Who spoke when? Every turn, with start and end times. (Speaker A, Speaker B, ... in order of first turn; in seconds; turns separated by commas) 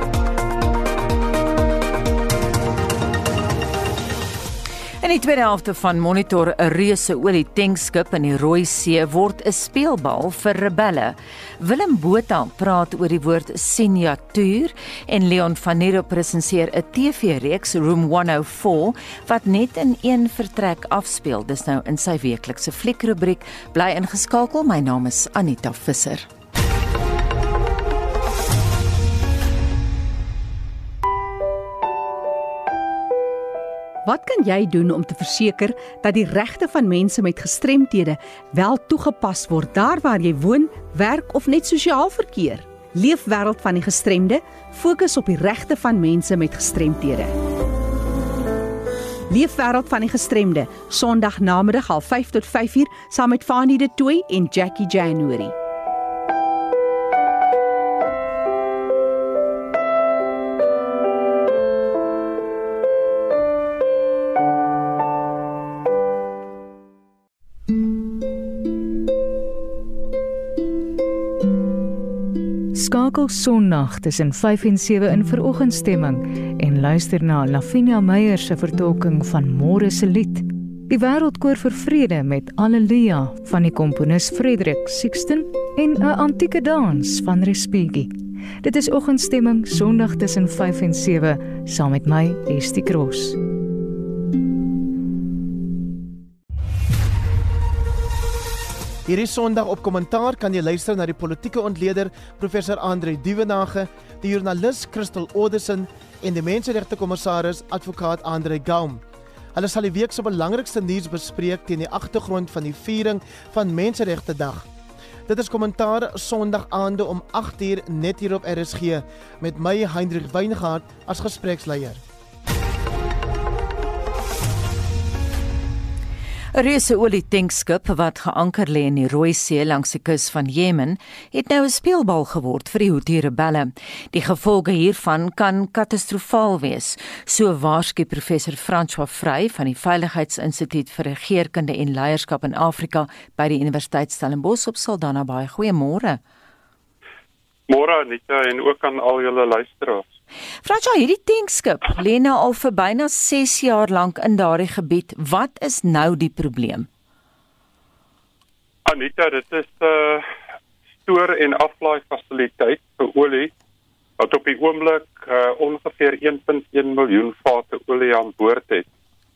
Speaker A: 5.0-26.3, Speaker B: 34.0-47.4, Speaker B: 49.3-55.5, Speaker C: 72.8-93.4, Speaker D: 99.1-109.0, Speaker D: 109.5-114.7, Speaker D: 115.3-122.0, Speaker A: 126.5-146.2, Speaker E: 147.7-150.0, Speaker A: 150.6-156.9, Speaker E: 158.9-160.2, Speaker E: 161.1-163.5, Speaker E: 164.2-168.9